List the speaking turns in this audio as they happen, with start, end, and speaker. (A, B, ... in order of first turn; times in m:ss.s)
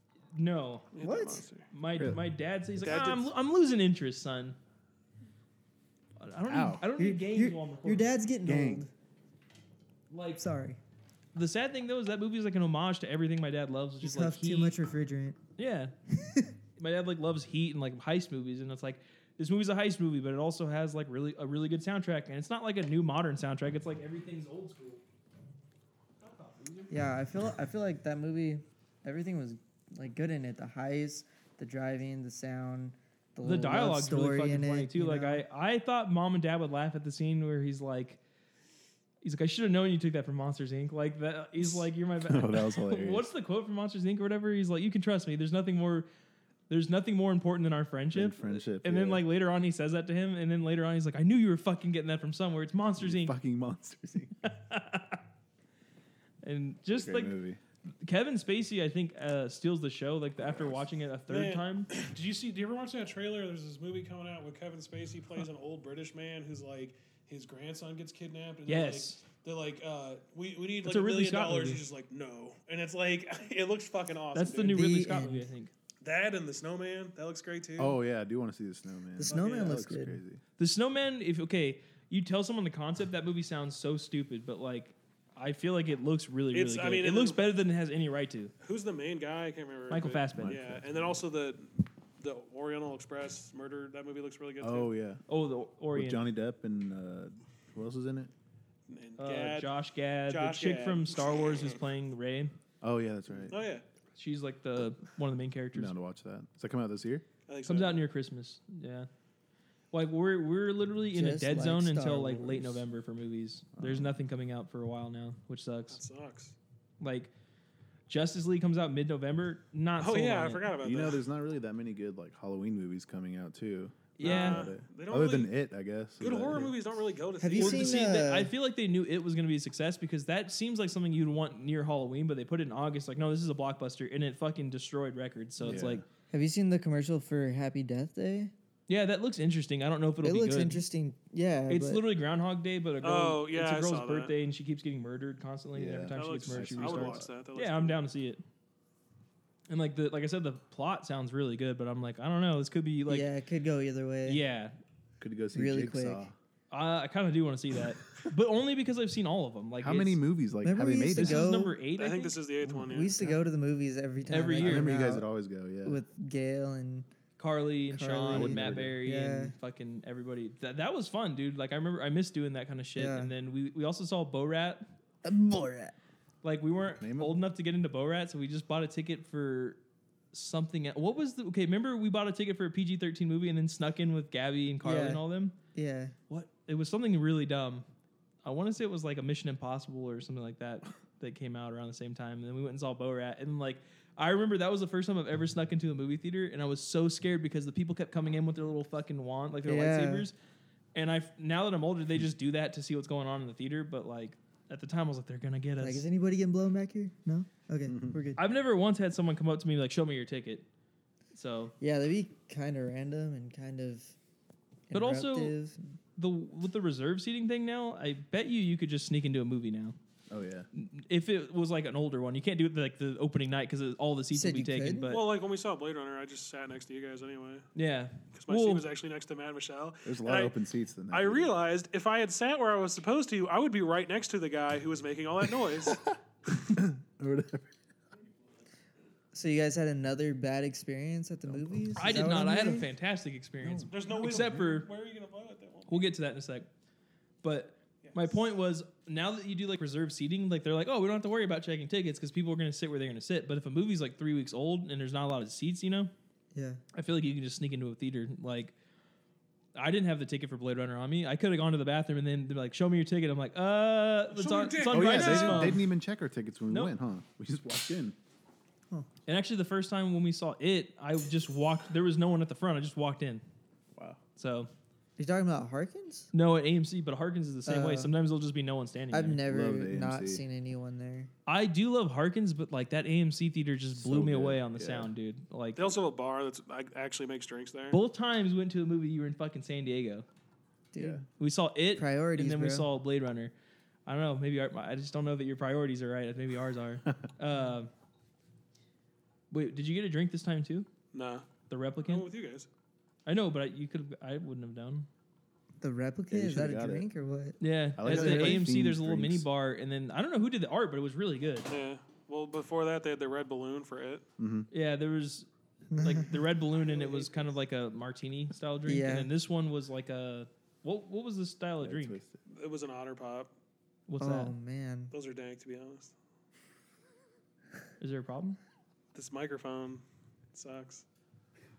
0:00.3-0:00.9 A
0:00.9-0:01.7 B
0:01.0-0:01.4 C
0:01.7-0:04.6 A
0:01.9-0:02.2 D
0:02.8-0:03.3 B
0:06.2-0:08.0 A
0:06.5-0:06.8 D
0:07.0-0:08.9 C
0:08.4-0:08.9 D
0:10.1-0:10.4 A
0:10.4-0:10.8 C
0:11.3-0:14.8 A
0:14.0-0:15.4 C
0:15.6-0:15.9 A
0:16.2-0:16.5 C
0:16.8-0:25.0 A
0:26.2-0:26.9 A
0:26.9-0:35.4 C
0:33.4-0:38.2 A
0:39.2-0:46.1 A
0:42.2-0:43.3 D
0:46.7-0:53.3 A
0:48.1-0:49.2 D
0:53.0-0:54.4 D
0:54.4-0:55.2 A
0:56.4-0:57.4 A
0:56.9-0:57.6 D
0:58.0-1:01.9 A
1:00.4-1:00.8 D
1:01.3-1:14.9 B
1:08.7-1:09.2 A
1:10.8-1:11.8 A
1:14.3-1:15.7 A
1:14.6-1:15.5 C
1:16.0-1:18.0 B
1:17.8-1:20.4 D
1:19.2-1:20.2 C
1:19.3-1:19.8 B
1:20.6-1:28.5 A
1:26.5-1:27.4 B
1:28.6-1:34.9 B
1:29.9-1:30.6 A
1:30.4-1:30.9 D
1:34.6-1:35.2 D
1:35.3-1:36.2 A
1:35.9-1:38.3 D
1:38.9-1:39.7 B
1:39.2-1:42.6 A
1:40.3-1:41.6 B
1:42.8-1:43.6 D
1:43.5-1:43.8 B
1:44.1-1:45.9 A
1:45.7-1:47.2 D
1:47.5-1:48.0 B
1:47.6-1:49.1 A
1:49.9-1:56.0 A
1:51.1-1:52.8 C
1:53.8-1:54.1 D
1:55.9-1:56.5 B
1:57.0-1:57.3 A
1:58.1-2:00.7 A
2:00.0-2:01.2 B
2:00.8-2:06.7 D
2:04.2-2:04.6 A
2:04.2-2:05.5 B
2:06.2-2:08.1 B
2:07.4-2:08.5 C
2:07.6-2:16.0 A
2:15.6-2:16.0 D
2:16.3-2:18.5 C
2:18.9-2:20.8 A
2:20.2-2:22.0 C
2:21.7-2:28.4 A
2:23.0-2:24.3 B
2:25.7-2:27.3 D
2:26.1-2:28.0 B
2:29.7-2:33.3 A
2:33.1-2:34.4 C
2:34.2-2:34.7 A
2:35.2-2:36.3 D
2:35.5-2:36.2 C
2:36.7-2:40.2 A
2:39.8-2:41.6 D
2:40.6-2:41.8 C
2:41.2-2:42.4 A
2:42.0-2:43.2 B
2:42.6-2:43.2 D
2:42.9-2:45.2 C
2:44.3-2:44.9 A
2:44.6-2:46.0 D
2:45.8-2:47.1 C
2:47.4-2:54.9 A
2:47.9-2:49.5 C
2:48.3-2:49.0 D
2:52.9-2:53.3 C
2:55.2-2:56.0 C
2:56.4-2:59.8 A
2:57.0-2:57.4 D
3:00.3-3:05.5 A
3:04.8-3:05.2 C
3:05.7-3:06.1 C
3:06.3-3:07.8 A
3:08.4-3:20.3 A
3:19.6-3:20.3 C
3:20.9-3:26.0 A
3:25.8-3:28.4 C
3:27.9-3:28.2 D
3:28.4-3:30.6 A
3:31.3-3:31.7 A
3:31.8-3:34.2 C
3:34.9-3:35.9 C
3:34.9-3:35.6 A
3:36.2-3:39.9 A
3:40.3-3:40.7 D
3:40.7-3:45.2 A
3:44.3-3:45.1 C
3:45.1-3:47.7 B
3:47.7-3:48.8 A
3:48.4-3:50.5 B
3:50.0-3:51.5 D
3:51.1-3:56.0 B
3:56.6-3:57.7 D
3:59.3-4:02.9 C
4:01.4-4:02.3 D
4:02.0-4:04.9 A
4:03.6-4:04.6 D
4:03.9-4:06.1 B
4:05.9-4:06.7 A
4:07.4-4:16.1 A
4:08.0-4:08.3 B
4:16.5-4:16.8 C
4:16.9-4:18.7 A
4:19.7-4:25.8 A
4:24.3-4:25.7 B
4:24.9-4:28.2 D
4:29.2-4:33.4 A
4:34.4-4:34.7 A
4:35.2-4:36.3 C
4:36.3-4:39.4 A
4:37.6-4:38.1 C
4:39.1-4:41.3 C
4:39.4-4:40.4 D
4:41.5-4:45.9 A
4:43.9-4:45.1 D
4:45.8-4:48.0 B
4:47.9-4:50.2 A
4:50.9-4:51.2 C
4:51.0-4:51.2 D
4:51.4-4:53.5 A
4:51.9-4:52.9 C
4:54.0-4:57.9 A
4:59.5-5:00.9 A
5:01.1-5:01.5 B
5:01.7-5:02.3 A
5:02.0-5:02.7 B
5:03.2-5:05.1 A
5:05.8-5:08.6 C
5:06.3-5:07.1 D
5:07.6-5:11.7 A
5:08.0-5:09.4 D
5:11.7-5:14.2 B
5:14.4-5:14.7 D
5:14.7-5:22.2 A
5:15.9-5:16.3 C
5:16.7-5:17.5 B
5:18.8-5:19.3 C
5:21.8-5:22.4 D
5:22.5-5:23.5 B
5:24.1-5:24.5 A
5:24.2-5:25.1 C
5:25.1-5:26.1 B
5:28.0-5:28.6 A
5:29.1-5:31.0 B